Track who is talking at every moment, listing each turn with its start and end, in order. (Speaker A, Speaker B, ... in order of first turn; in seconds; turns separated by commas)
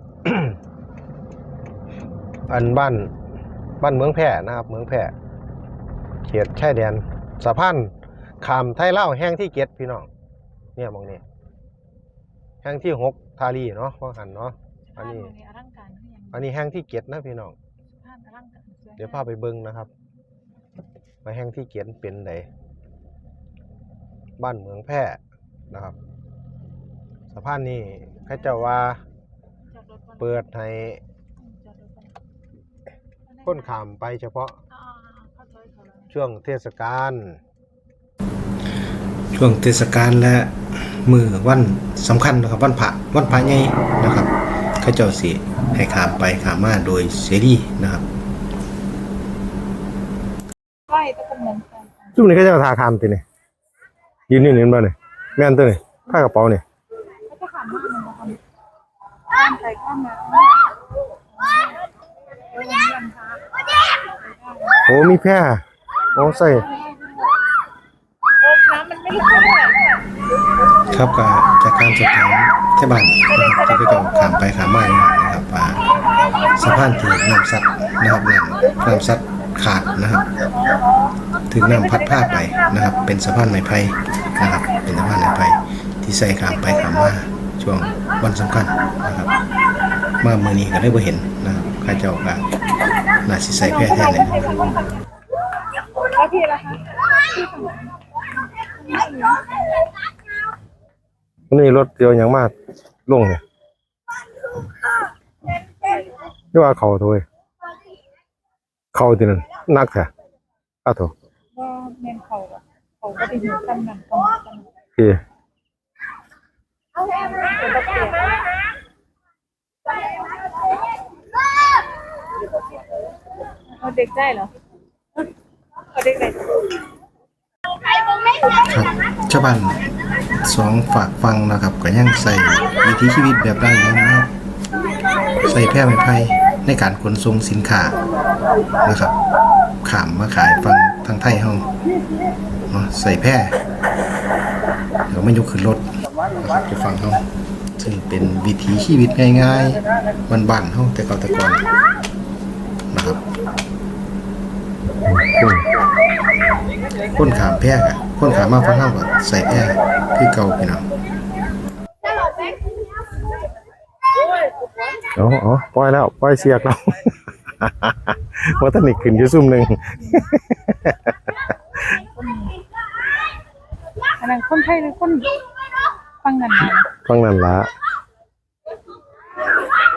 Speaker A: 0.2-0.6, Speaker A: 2.5-3.1, Speaker A: 3.8-5.1, Speaker A: 6.3-10.1, Speaker A: 10.8-11.2, Speaker A: 12.6-15.3, Speaker B: 14.9-16.5, Speaker A: 16.3-17.6, Speaker B: 18.0-19.2, Speaker A: 19.0-19.9, Speaker A: 21.2-22.5, Speaker A: 24.4-25.2, Speaker A: 25.7-26.0, Speaker A: 27.3-29.0, Speaker B: 29.8-30.2, Speaker A: 30.2-31.0, Speaker B: 31.4-32.1, Speaker B: 33.3-33.7, Speaker A: 33.5-34.6, Speaker B: 34.8-36.1, Speaker A: 36.1-37.4, Speaker C: 39.3-48.0, Speaker B: 50.9-52.1, Speaker A: 52.1-53.2, Speaker A: 54.3-56.6, Speaker B: 57.3-58.4, Speaker B: 59.3-60.7, Speaker B: 61.4-61.8, Speaker B: 62.5-63.4, Speaker B: 64.3-64.8, Speaker A: 64.8-65.6, Speaker A: 66.1-66.7, Speaker B: 66.2-67.4, Speaker B: 68.4-70.0, Speaker C: 70.9-75.8, Speaker C: 76.5-80.3, Speaker B: 80.6-81.1, Speaker C: 81.5-89.3, Speaker C: 90.2-92.4, Speaker C: 93.2-94.5, Speaker B: 93.7-95.0, Speaker B: 96.1-98.0, Speaker B: 98.6-99.7, Speaker A: 101.5-102.5, Speaker A: 103.1-103.4, Speaker A: 106.5-107.2, Speaker A: 108.9-110.1, Speaker A: 110.8-111.1, Speaker B: 111.5-114.7, Speaker B: 117.0-118.4, Speaker B: 123.7-124.5, Speaker B: 125.9-126.6, Speaker C: 128.6-129.8, Speaker C: 130.4-134.3, Speaker C: 135.4-138.0, Speaker C: 138.8-139.2, Speaker C: 139.8-141.6, Speaker C: 142.7-143.5, Speaker C: 145.1-147.2, Speaker C: 147.8-151.6, Speaker C: 152.9-153.2, Speaker A: 155.1-155.7, Speaker C: 157.1-160.8, Speaker A: 165.2-171.0, Speaker B: 171.8-172.6, Speaker B: 174.2-175.4, Speaker B: 176.2-176.9, Speaker A: 177.0-177.7